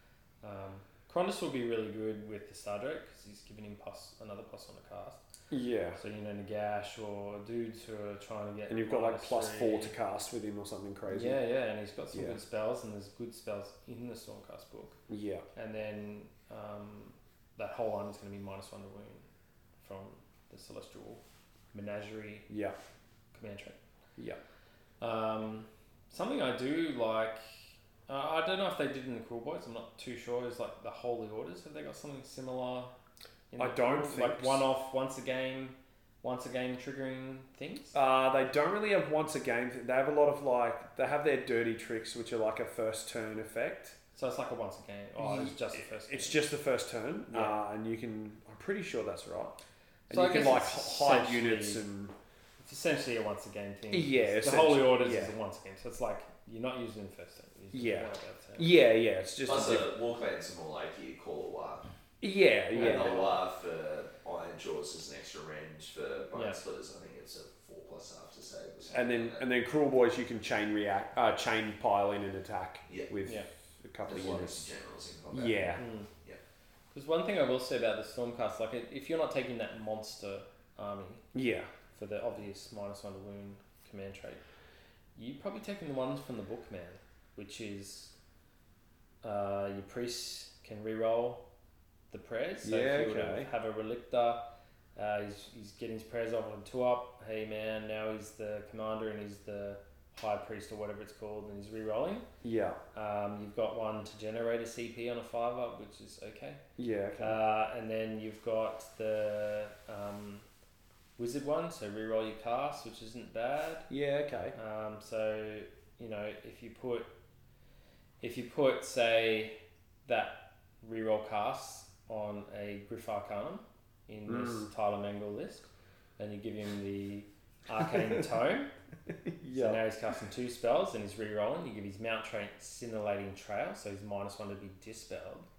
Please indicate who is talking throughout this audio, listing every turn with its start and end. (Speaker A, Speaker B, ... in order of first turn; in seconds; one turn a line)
Speaker A: 0.4-5.2
Speaker B: 5.5-6.0
Speaker A: 6.0-9.9
Speaker B: 8.7-11.4
Speaker A: 11.1-15.0
Speaker B: 15.1-15.4
Speaker A: 15.5-19.2
Speaker A: 19.8-21.2
Speaker A: 21.7-22.5
Speaker B: 22.5-22.8
Speaker A: 23.3-23.8
Speaker A: 25.0-27.4
Speaker A: 28.1-32.9
Speaker A: 33.5-38.0
Speaker B: 33.6-34.6
Speaker B: 37.9-44.0
Speaker A: 44.1-46.4
Speaker B: 45.2-49.6
Speaker A: 47.3-47.5
Speaker B: 50.1-52.1
Speaker A: 50.1-51.8
Speaker A: 52.6-58.7
Speaker B: 53.9-55.3
Speaker B: 57.7-59.9
Speaker C: 59.5-61.8
Speaker B: 62.2-63.2
Speaker A: 62.7-63.4
Speaker C: 62.7-69.4
Speaker A: 66.3-66.6
Speaker B: 68.9-74.7
Speaker C: 72.8-73.1
Speaker C: 74.0-76.4
Speaker B: 75.3-75.8
Speaker A: 75.8-76.1
Speaker A: 76.9-81.2
Speaker B: 81.3-81.7
Speaker A: 81.9-84.4
Speaker A: 85.2-88.1
Speaker A: 89.2-91.4
Speaker A: 92.1-94.4
Speaker B: 92.6-93.5
Speaker A: 95.0-102.2
Speaker B: 102.4-102.8
Speaker A: 102.9-106.6
Speaker B: 106.8-107.4
Speaker A: 107.2-110.5
Speaker A: 111.2-113.9
Speaker B: 113.9-114.5
Speaker A: 114.5-117.1
Speaker A: 118.2-119.5
Speaker A: 120.0-125.7
Speaker B: 124.3-124.7
Speaker A: 126.2-128.7
Speaker B: 129.2-129.8
Speaker A: 129.5-135.5